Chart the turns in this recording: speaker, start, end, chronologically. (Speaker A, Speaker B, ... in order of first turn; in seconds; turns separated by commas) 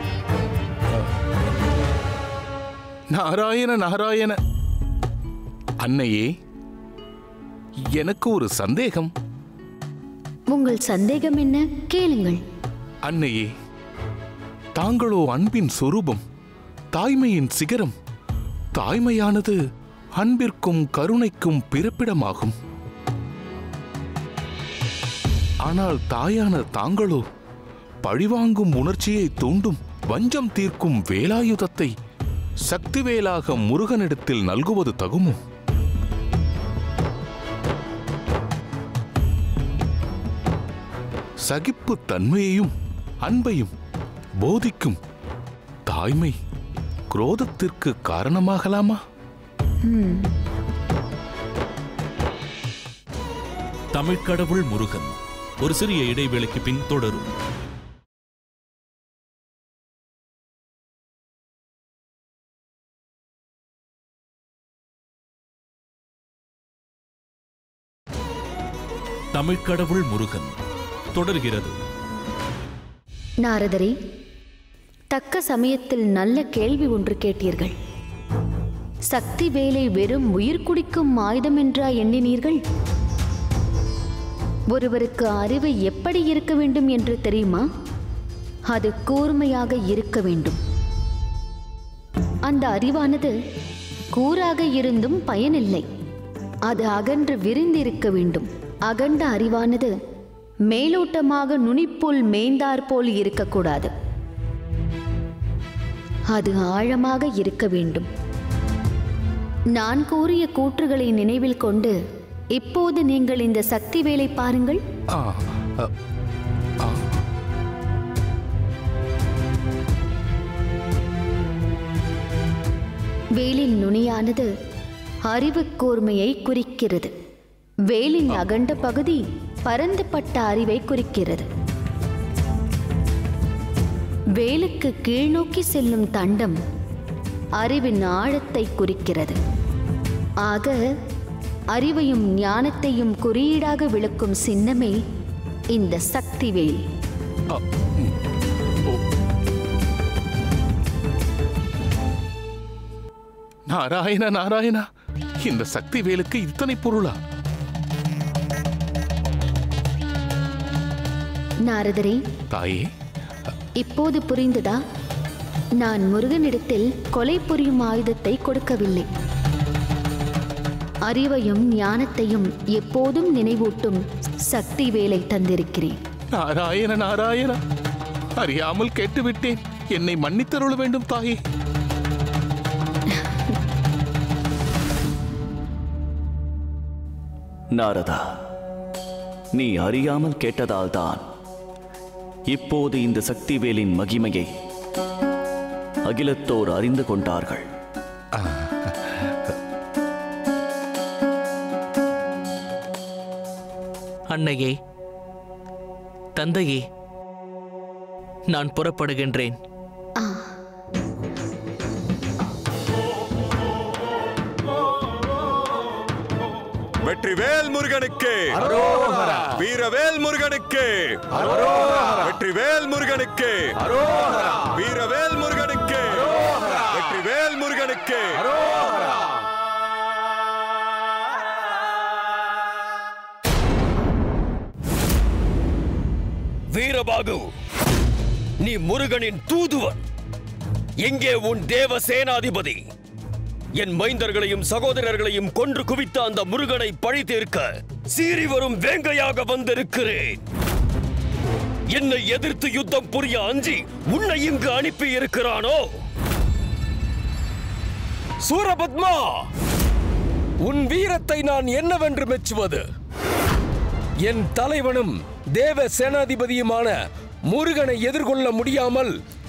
Speaker A: 3.1-4.4, Speaker A: 5.8-6.3, Speaker A: 8.0-9.1, Speaker B: 10.5-12.4, Speaker A: 13.1-13.5, Speaker A: 14.8-16.2, Speaker A: 16.9-17.9, Speaker A: 18.8-19.6, Speaker A: 20.2-22.6, Speaker A: 25.7-27.2, Speaker A: 28.0-31.9, Speaker A: 32.7-35.4, Speaker A: 41.5-42.7, Speaker A: 43.2-43.7, Speaker A: 44.4-45.0, Speaker A: 45.9-46.4, Speaker A: 47.1-49.0, Speaker B: 49.8-50.3, Speaker C: 53.9-57.3, Speaker C: 69.3-70.6, Speaker C: 71.2-71.8, Speaker B: 73.4-74.0, Speaker B: 75.1-77.8, Speaker B: 79.1-82.6, Speaker B: 84.7-87.7, Speaker B: 88.7-90.6, Speaker B: 92.5-93.3, Speaker B: 94.1-95.8, Speaker B: 96.7-99.9, Speaker B: 100.7-103.9, Speaker B: 106.3-108.1, Speaker B: 109.7-112.0, Speaker B: 112.5-114.8, Speaker A: 115.2-115.9, Speaker A: 116.8-117.1, Speaker B: 123.4-124.5, Speaker B: 125.3-127.1, Speaker B: 127.9-131.5, Speaker B: 134.4-136.6, Speaker B: 137.6-139.4, Speaker B: 140.4-140.8, Speaker B: 141.7-145.0, Speaker B: 145.7-146.8, Speaker A: 147.5-148.1, Speaker A: 153.7-154.9, Speaker A: 155.4-157.2, Speaker B: 161.7-162.2, Speaker A: 162.5-162.9, Speaker B: 163.8-164.8, Speaker B: 165.8-169.1, Speaker B: 171.1-176.0, Speaker A: 176.4-177.6, Speaker A: 178.4-181.4, Speaker D: 187.8-188.2, Speaker D: 189.6-191.3, Speaker D: 192.5-194.5, Speaker D: 196.1-197.7, Speaker A: 198.4-199.5, Speaker E: 204.3-204.8, Speaker E: 206.4-206.8, Speaker E: 208.5-209.6, Speaker B: 210.2-210.5, Speaker F: 217.1-218.8, Speaker F: 219.4-223.7, Speaker F: 224.6-228.5, Speaker G: 236.7-237.4, Speaker G: 238.6-240.0, Speaker G: 241.0-242.8, Speaker G: 243.8-250.4, Speaker G: 251.9-255.9, Speaker H: 258.4-259.3, Speaker H: 260.6-262.9, Speaker H: 264.2-267.0, Speaker H: 267.5-269.1